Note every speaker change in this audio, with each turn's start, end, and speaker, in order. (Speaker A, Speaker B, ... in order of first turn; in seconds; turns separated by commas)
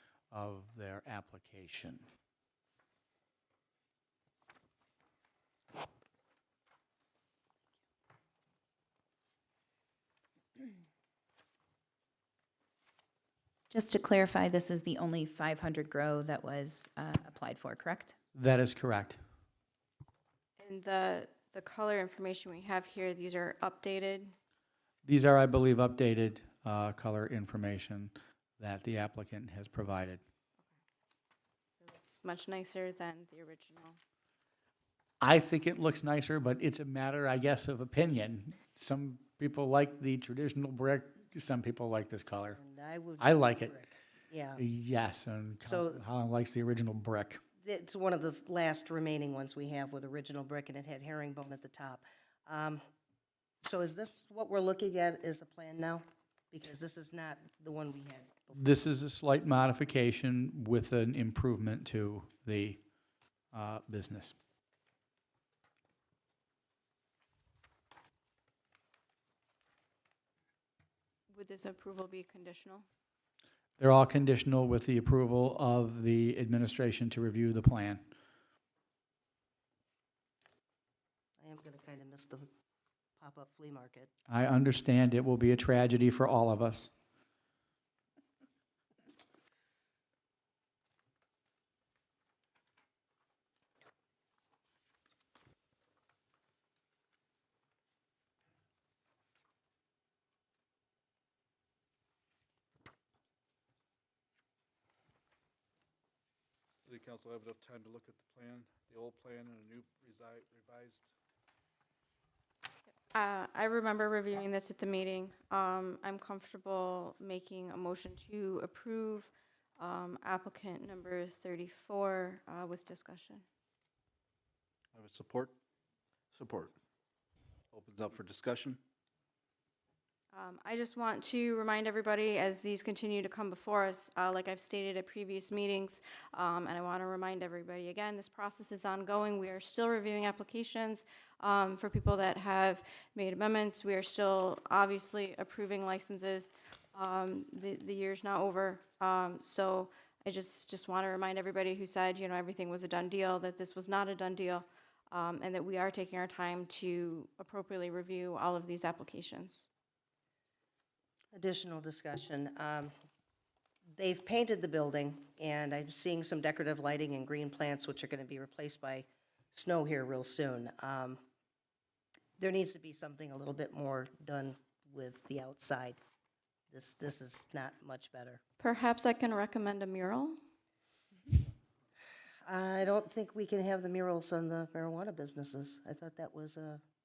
Speaker A: 0.3-2.0, Speaker B: 13.7-18.1, Speaker A: 18.4-19.2, Speaker C: 20.6-24.3, Speaker A: 25.1-30.2, Speaker C: 31.8-34.0, Speaker A: 35.2-42.6, Speaker D: 42.5-44.6, Speaker A: 43.2-43.7, Speaker A: 44.6-47.4, Speaker D: 45.7-46.0, Speaker D: 47.6-52.8, Speaker D: 53.6-58.6, Speaker A: 58.5-62.8, Speaker A: 63.5-64.3, Speaker C: 71.3-72.9, Speaker A: 73.8-78.0, Speaker D: 81.4-82.5, Speaker D: 83.2-84.1, Speaker A: 84.3-86.9, Speaker E: 106.8-111.1, Speaker C: 113.1-123.4, Speaker E: 124.9-125.6, Speaker E: 126.3-126.8, Speaker E: 127.7-128.8, Speaker C: 130.3-159.7, Speaker D: 161.3-162.9, Speaker D: 163.9-171.2, Speaker D: 172.4-176.0, Speaker D: 176.7-178.4, Speaker C: 178.6-180.4, Speaker D: 182.4-186.8